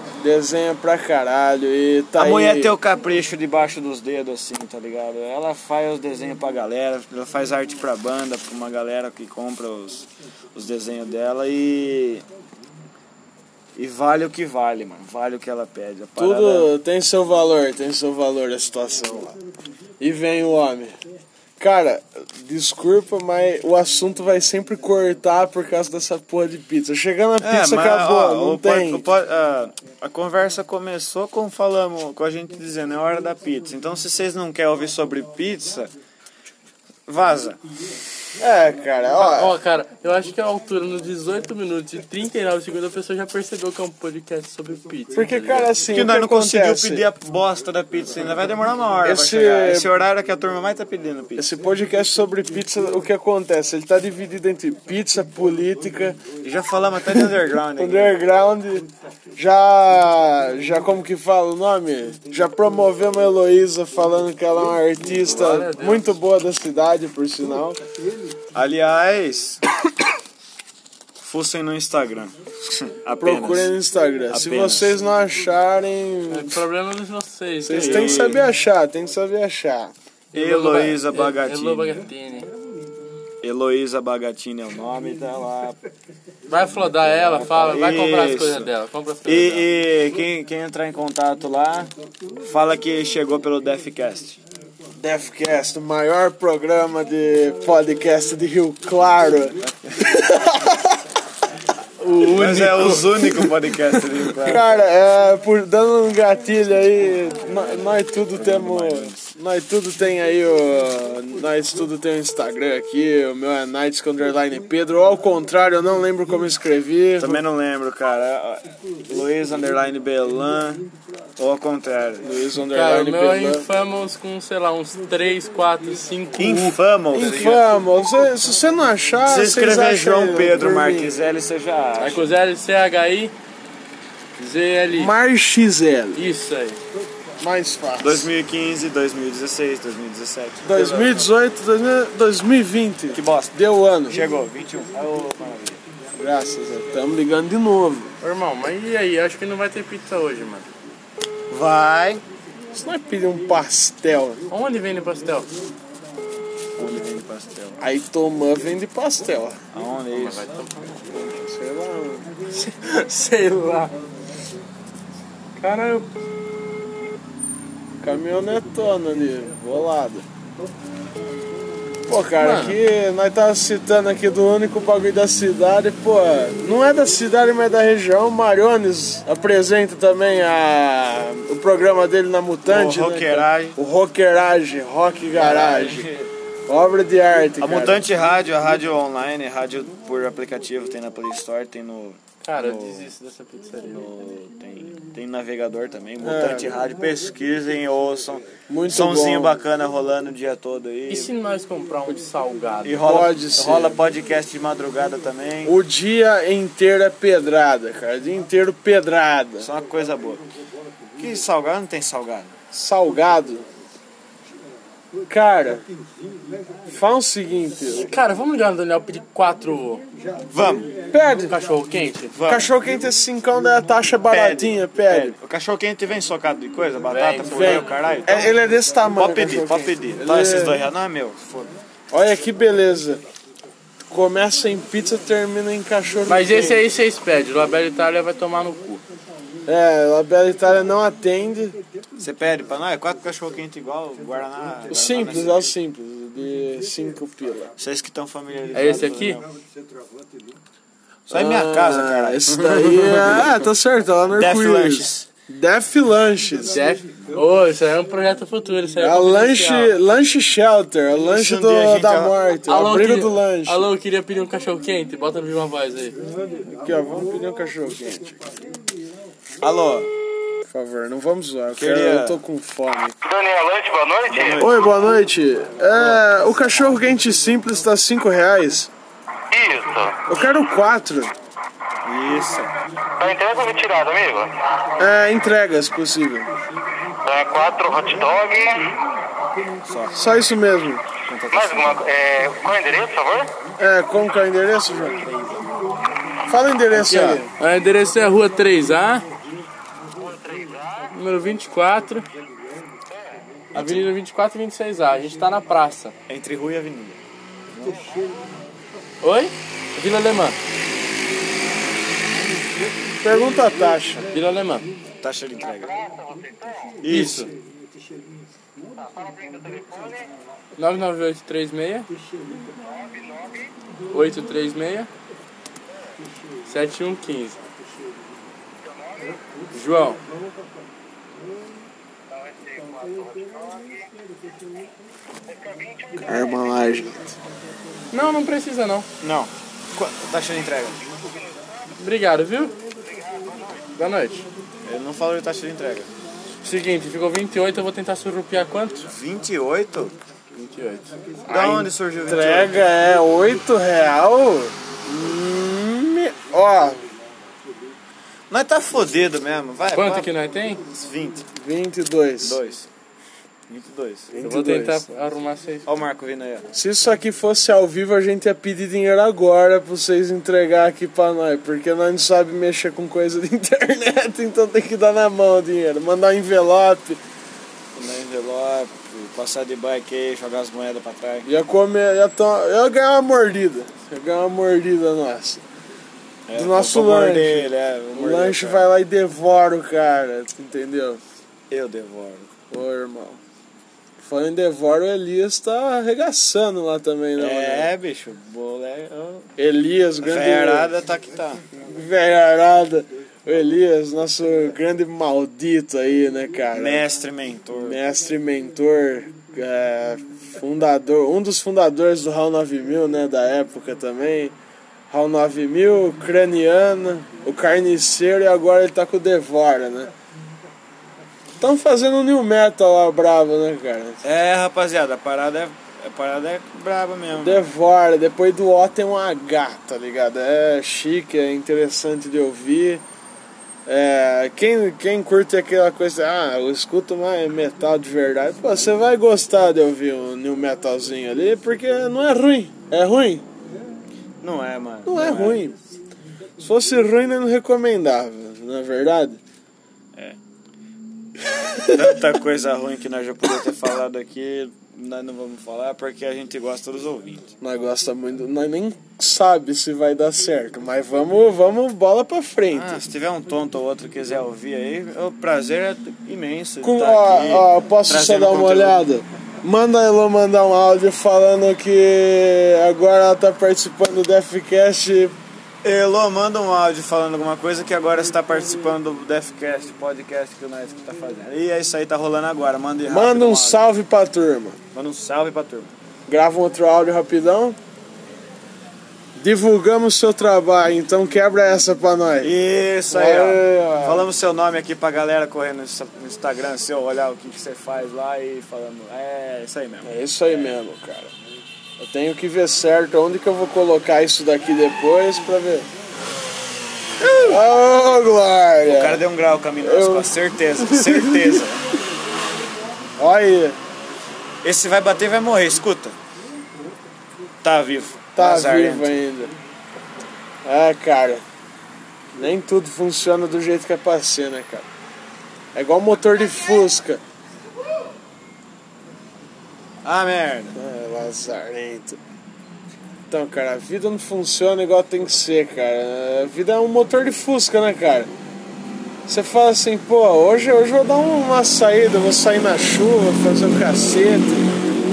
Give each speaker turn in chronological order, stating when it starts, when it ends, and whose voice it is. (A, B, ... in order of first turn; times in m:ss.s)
0:00.2-0:02.7 A
0:02.2-0:12.2 B
0:13.8-0:16.7 B
0:16.2-0:19.4 A
0:20.0-0:20.9 A
0:21.6-0:29.0 A
0:27.4-0:35.9 B
0:37.1-0:37.6 B
0:38.4-0:39.6 A
0:39.1-0:45.7 C
0:45.1-0:47.0 A
0:45.9-0:51.5 B
0:49.0-0:49.9 A
0:51.4-0:56.2 A
0:56.4-0:58.2 B
0:57.2-1:07.8 A
1:05.2-1:06.1 C
1:08.5-1:09.6 B
1:11.2-1:13.7 B
1:13.2-1:16.6 A
1:14.3-1:14.9 B
1:16.3-1:18.3 C
1:17.6-1:19.9 A
1:17.7-1:18.4 B
1:20.3-1:22.5 C
1:20.3-1:22.0 B
1:23.4-1:25.8 B
1:26.5-1:29.7 C
1:27.1-1:28.7 B
1:29.2-1:34.4 B
1:35.0-1:41.0 A
1:39.6-1:40.0 B
1:42.0-1:44.5 C
1:42.3-1:44.6 B
1:44.4-1:57.4 A
1:48.3-1:49.3 B
1:57.2-2:00.8 B
2:01.4-2:02.3 B
2:02.2-2:03.6 A
2:02.7-2:06.8 C
2:06.4-2:07.6 B
2:07.1-2:11.2 A
2:09.2-2:12.2 B
2:12.0-2:13.3 C
2:14.4-2:15.1 C
2:14.9-2:16.2 A
2:16.1-2:16.8 C
2:17.4-2:18.3 A
2:18.0-2:21.3 B
2:20.6-2:24.2 A
2:23.1-2:23.6 B
2:24.1-2:25.8 B
2:26.1-2:28.1 A
2:28.2-2:30.7 C
2:31.5-2:32.2 B
2:32.7-2:34.4 A
2:34.5-2:35.5 C
2:36.8-2:37.8 B
2:37.8-2:39.6 A
2:39.7-2:40.4 B
2:40.1-2:41.0 C
2:41.1-2:42.3 A
2:42.5-2:43.9 C
2:45.6-2:46.1 C
2:48.0-2:50.2 A
2:52.1-3:06.1 A
2:52.4-2:52.8 C
3:02.6-3:03.8 B
3:05.3-3:06.3 B
3:06.7-3:08.0 A
3:07.6-3:13.1 B
3:12.4-3:14.1 C
3:13.9-3:21.3 B
3:16.2-3:16.7 A
3:18.7-3:19.5 A
3:21.1-3:23.1 C
3:22.8-3:25.7 B
3:23.0-3:24.0 A
3:25.6-3:29.7 A
3:29.6-3:30.4 B
3:31.2-3:32.6 B
3:32.7-3:33.6 A
3:35.3-3:35.9 A
3:36.9-3:38.1 A
3:38.0-3:40.0 C
3:40.5-3:40.9 B
3:41.1-3:41.5 A
3:41.4-3:42.3 C
3:42.3-3:42.7 B
3:42.4-3:45.4 A
3:44.3-3:48.5 B
3:47.1-3:48.2 C
3:47.5-3:50.8 A
3:49.1-3:51.7 B
3:52.1-3:53.2 A
3:54.0-3:56.8 A
3:56.3-3:59.0 C
3:59.6-4:01.8 A
4:02.2-4:05.7 B
4:04.9-4:07.7 A
4:07.8-4:09.5 B
4:08.7-4:09.4 C
4:11.3-4:13.5 B
4:11.3-4:16.8 A
4:14.3-4:15.3 B
4:16.6-4:19.9 C
4:19.0-4:23.9 A
4:21.2-4:22.4 B
4:22.7-4:26.2 C
4:26.6-4:28.6 A
4:29.6-4:30.1 B
4:30.7-4:33.2 A
4:31.7-4:32.4 B
4:33.2-4:34.7 D
4:34.3-4:34.8 B
4:34.6-4:38.9 A
4:35.9-4:36.2 B
4:39.5-4:40.4 D
4:40.3-4:41.3 A
4:42.0-4:42.7 B
4:43.2-4:44.8 D
4:45.0-4:46.5 A
4:47.2-4:48.9 D
4:49.9-4:50.2 B
4:50.1-4:51.0 A
4:51.2-4:52.0 B
4:51.5-4:53.5 D
4:53.8-4:55.2 A
4:56.5-4:57.5 A
4:56.9-4:59.3 C
5:00.2-5:01.1 D
5:01.1-5:02.2 C
5:03.1-5:03.5 D
5:03.7-5:04.1 B
5:03.7-5:06.1 C
5:06.3-5:07.2 B
5:07.7-5:08.0 B
5:07.8-5:08.4 D
5:09.2-5:10.6 C
5:13.2-5:14.3 A
5:14.3-5:14.9 C
5:15.2-5:15.9 B
5:15.6-5:17.0 D
5:17.0-5:17.5 B
5:17.1-5:17.5 C
5:19.0-5:20.3 D
5:20.8-5:22.1 C
5:22.8-5:23.7 D
5:24.1-5:25.1 C
5:26.6-5:27.6 C
5:28.8-5:29.4 D
5:29.7-5:30.2 C
5:32.3-5:34.1 D
5:35.4-5:36.9 D
5:36.2-5:37.4 A
5:38.1-5:39.1 C
5:39.2-5:41.0 B
5:41.2-5:41.9 D
5:42.0-5:42.7 C
5:43.0-5:43.9 D
5:44.0-5:44.4 C
5:44.8-5:46.1 B
5:46.6-5:49.1 C
5:49.0-5:50.2 B
5:50.5-5:51.1 C
5:51.5-5:52.8 B
5:51.5-5:57.0 A
5:58.5-6:00.3 B
5:59.9-6:00.8 C
6:00.9-6:01.4 B
6:01.6-6:02.6 A
6:02.4-6:02.9 B
6:03.7-6:04.3 B
6:04.3-6:05.0 A
6:04.4-6:05.8 C
6:05.8-6:06.7 B
6:06.7-6:17.2 A
6:17.9-6:21.5 B
6:21.4-6:25.6 A
6:26.5-6:28.9 B
6:26.5-6:31.2 A
6:31.7-6:32.5 B
6:32.7-6:33.4 A
6:34.2-6:37.9 A
6:37.4-6:39.5 B
6:39.6-6:40.9 A
6:40.2-6:41.6 B
6:41.7-6:47.0 A
6:46.7-6:48.0 B
6:47.8-6:54.6 A
6:55.1-7:00.1 A
7:01.6-7:04.2 A
7:04.2-7:07.6 B
7:07.4-7:13.0 A
7:13.8-7:23.5 A
7:24.4-7:25.6 B
7:25.0-7:25.8 A
7:26.6-7:29.4 A
7:31.6-7:32.0 A
7:31.8-7:37.5 B
7:37.6-7:43.0 A
7:42.7-7:49.0 B
7:46.8-7:55.4 A
7:55.8-8:03.9 B
8:03.0-8:04.8 A
8:04.9-8:05.9 B
8:06.3-8:07.8 A
8:09.4-8:12.5 A
8:12.4-8:20.1 B
8:13.1-8:14.3 A
8:20.0-8:21.3 A
8:22.0-8:25.9 A
8:27.2-8:27.6 B
8:27.4-8:29.2 A
8:28.8-8:31.8 B
8:29.8-8:31.6 A
8:33.2-8:33.8 A
8:34.6-8:36.2 B
8:37.6-8:39.1 B
8:38.3-8:39.5 A
8:40.6-8:41.4 A
8:42.3-8:44.9 A
8:45.7-8:47.2 A
8:50.0-8:50.8 B
8:50.7-8:52.2 A
8:53.3-8:58.3 A
8:59.3-9:04.7 A